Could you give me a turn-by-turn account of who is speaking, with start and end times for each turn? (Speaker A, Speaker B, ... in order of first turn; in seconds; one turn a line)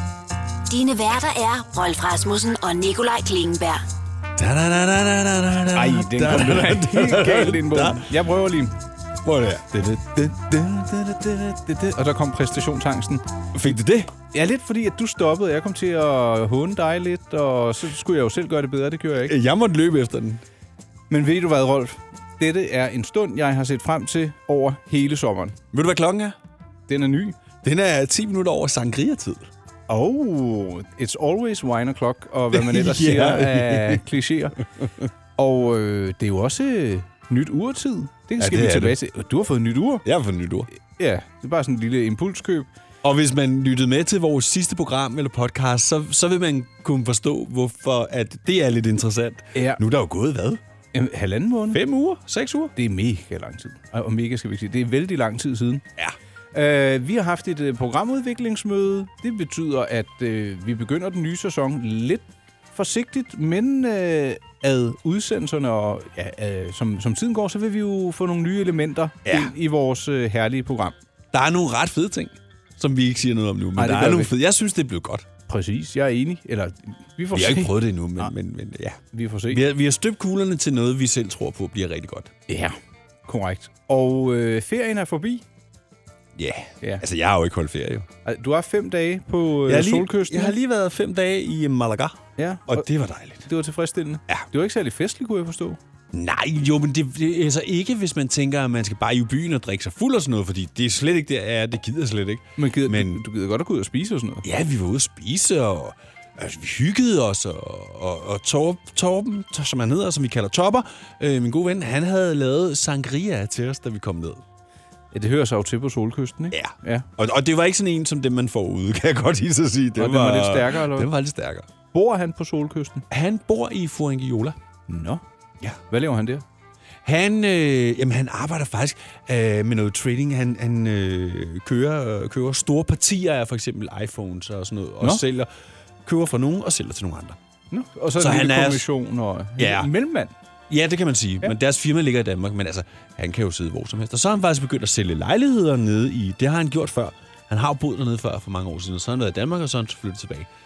Speaker A: 0.7-3.8
Speaker B: 4.3-8.1
Speaker C: 5.7-8.8
Speaker B: 9.2-9.7
Speaker C: 9.7-13.2
Speaker B: 13.5-14.1
Speaker C: 14.3-19.4
Speaker B: 19.3-20.4
Speaker C: 21.1-25.6
Speaker B: 25.7-26.3
Speaker C: 26.9-27.4
Speaker B: 27.6-29.5
Speaker C: 29.9-34.6
Speaker B: 32.5-34.0
Speaker C: 35.4-40.0
Speaker B: 38.4-39.0
Speaker B: 40.0-40.7
Speaker C: 41.0-42.7
Speaker B: 43.0-50.6
Speaker C: 49.5-49.8
Speaker C: 50.9-51.8
Speaker B: 51.7-52.7
Speaker C: 52.8-55.8
Speaker C: 56.5-70.9
Speaker B: 69.2-69.5
Speaker B: 71.3-75.3
Speaker C: 73.8-74.3
Speaker C: 75.5-78.3
Speaker B: 77.3-82.3
Speaker C: 79.1-79.6
Speaker C: 82.5-85.4
Speaker B: 86.3-88.1
Speaker C: 88.2-90.5
Speaker B: 89.7-93.5
Speaker C: 92.4-92.9
Speaker C: 93.4-95.8
Speaker B: 96.1-103.2
Speaker C: 102.6-104.4
Speaker B: 104.4-114.4
Speaker C: 115.1-117.1
Speaker B: 116.5-121.7
Speaker C: 120.0-121.1
Speaker C: 121.9-123.0
Speaker B: 123.1-124.6
Speaker C: 124.9-125.2
Speaker C: 125.9-126.4
Speaker B: 127.0-135.5
Speaker B: 136.0-137.4
Speaker C: 137.7-140.3
Speaker B: 138.2-138.8
Speaker B: 139.6-139.9
Speaker B: 140.7-150.5